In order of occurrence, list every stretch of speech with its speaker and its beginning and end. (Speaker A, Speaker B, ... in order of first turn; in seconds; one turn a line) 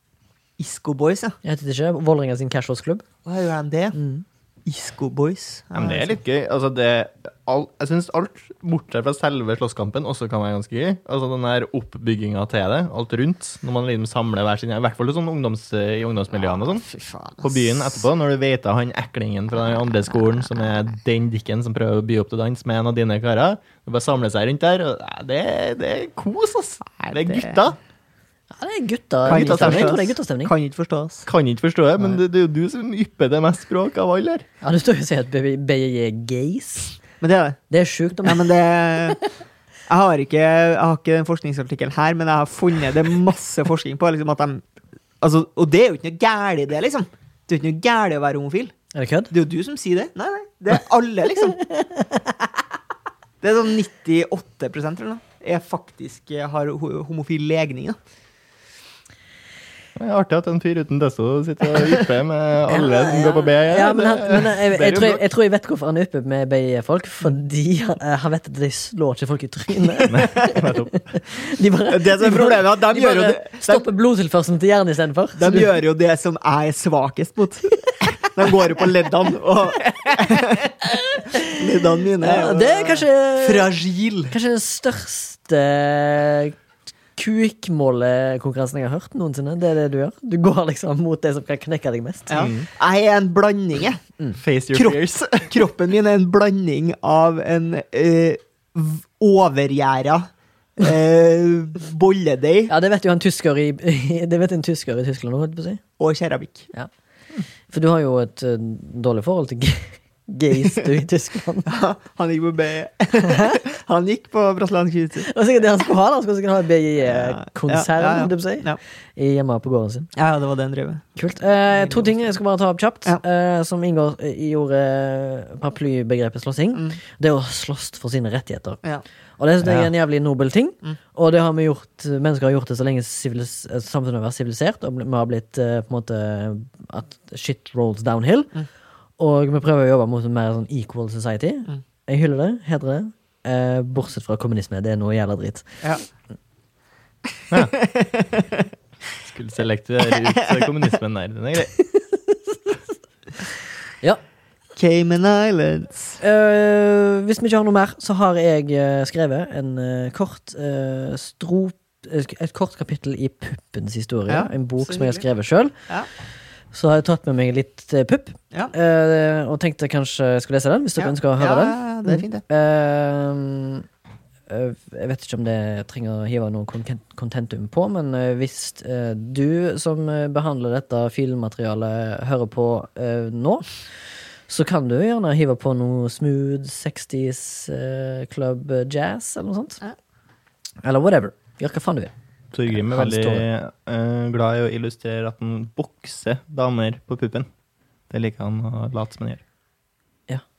Speaker A: 0.6-1.4
Speaker B: 1.4-3.0
Speaker A: 3.2-4.0
Speaker B: 4.0-4.2
Speaker A: 4.7-6.2
Speaker C: 5.7-16.9
Speaker A: 16.9-18.1
Speaker C: 17.4-27.8
Speaker A: 26.9-27.6
Speaker B: 28.5-30.5
Speaker C: 29.3-30.0
Speaker A: 29.3-31.3
Speaker C: 31.3-34.5
Speaker B: 34.6-37.0
Speaker A: 37.2-37.6
Speaker B: 37.7-38.5
Speaker A: 38.2-39.2
Speaker A: 39.9-44.6
Speaker A: 45.2-48.7
Speaker B: 48.9-49.3
Speaker A: 49.3-51.6
Speaker B: 51.7-52.4
Speaker A: 53.4-58.0
Speaker C: 60.0-65.2
Speaker B: 62.7-75.7
Speaker A: 70.0-70.6
Speaker C: 70.1-71.0
Speaker A: 71.9-73.9
Speaker A: 75.4-84.3
Speaker B: 81.2-81.6
Speaker B: 82.2-83.7
Speaker B: 84.3-86.6
Speaker B: 87.2-92.5
Speaker A: 92.3-94.0
Speaker C: 92.4-92.7
Speaker C: 94.4-95.5
Speaker A: 94.7-102.7
Speaker B: 102.7-105.8
Speaker A: 106.0-106.7
Speaker B: 107.7-111.7
Speaker A: 111.7-115.3
Speaker B: 113.2-113.6
Speaker B: 115.2-120.1
Speaker A: 117.1-118.8
Speaker A: 120.2-121.1
Speaker B: 121.2-128.8
Speaker A: 121.8-122.1
Speaker B: 129.4-138.5
Speaker C: 129.6-129.9
Speaker B: 139.2-145.8
Speaker A: 147.7-148.7
Speaker C: 149.2-151.7
Speaker B: 151.8-152.6
Speaker A: 154.8-156.2
Speaker B: 156.2-165.7
Speaker A: 164.3-165.2
Speaker B: 166.7-173.9
Speaker A: 171.0-172.4
Speaker B: 174.5-183.7
Speaker B: 184.5-189.8
Speaker B: 190.8-192.1
Speaker C: 192.5-197.5
Speaker B: 192.7-193.5
Speaker C: 198.1-199.4